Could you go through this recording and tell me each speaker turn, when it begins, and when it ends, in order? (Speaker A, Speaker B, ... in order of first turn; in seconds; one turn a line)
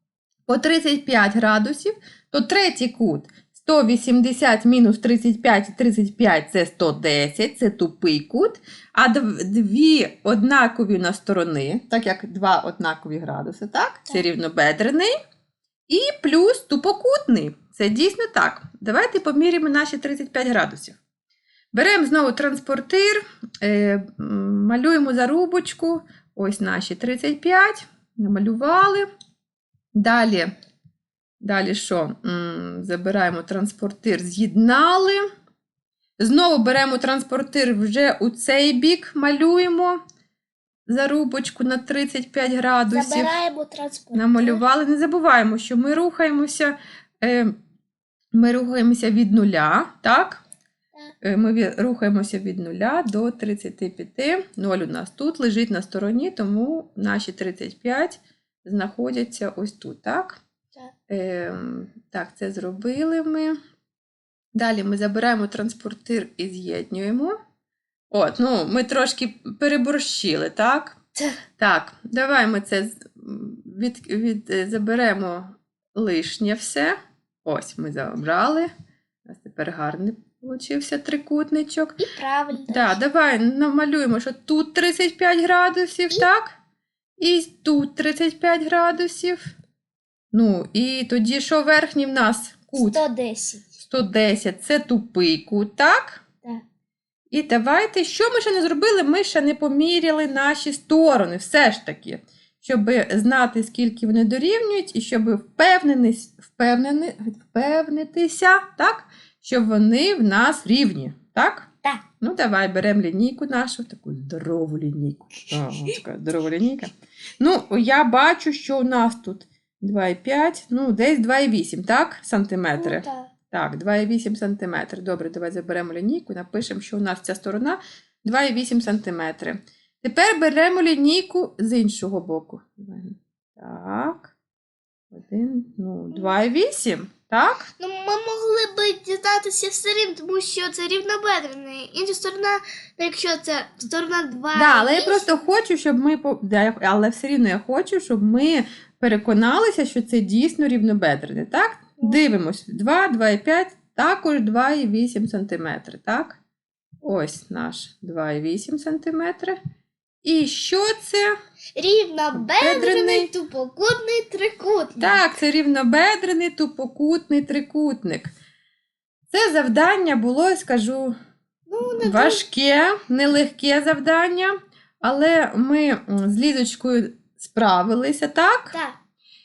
Speaker A: 0.5-15.1
Speaker A: 15.9-21.0
Speaker A: 21.7-29.1
Speaker A: 29.9-30.5
Speaker A: 31.4-35.3
Speaker A: 36.2-40.0
Speaker A: 40.9-43.4
Speaker B: 42.9-44.6
Speaker A: 44.1-47.5
Speaker A: 48.3-50.4
Speaker A: 51.2-60.4
Speaker A: 61.1-63.6
Speaker A: 64.5-67.4
Speaker A: 68.1-71.0
Speaker A: 71.6-78.7
Speaker A: 79.3-82.0
Speaker B: 82.0-83.0
Speaker A: 82.6-86.6
Speaker A: 87.2-89.5
Speaker A: 90.3-93.0
Speaker B: 92.7-93.8
Speaker A: 93.8-96.2
Speaker A: 97.3-134.3
Speaker B: 122.8-123.3
Speaker A: 135.1-137.7
Speaker B: 137.8-145.3
Speaker A: 144.5-156.4
Speaker A: 157.0-159.6
Speaker A: 160.2-161.3
Speaker B: 161.8-165.2
Speaker A: 162.3-163.3
Speaker A: 165.0-168.3
Speaker A: 169.3-171.2
Speaker B: 171.7-172.4
Speaker A: 172.0-178.8
Speaker B: 178.7-179.0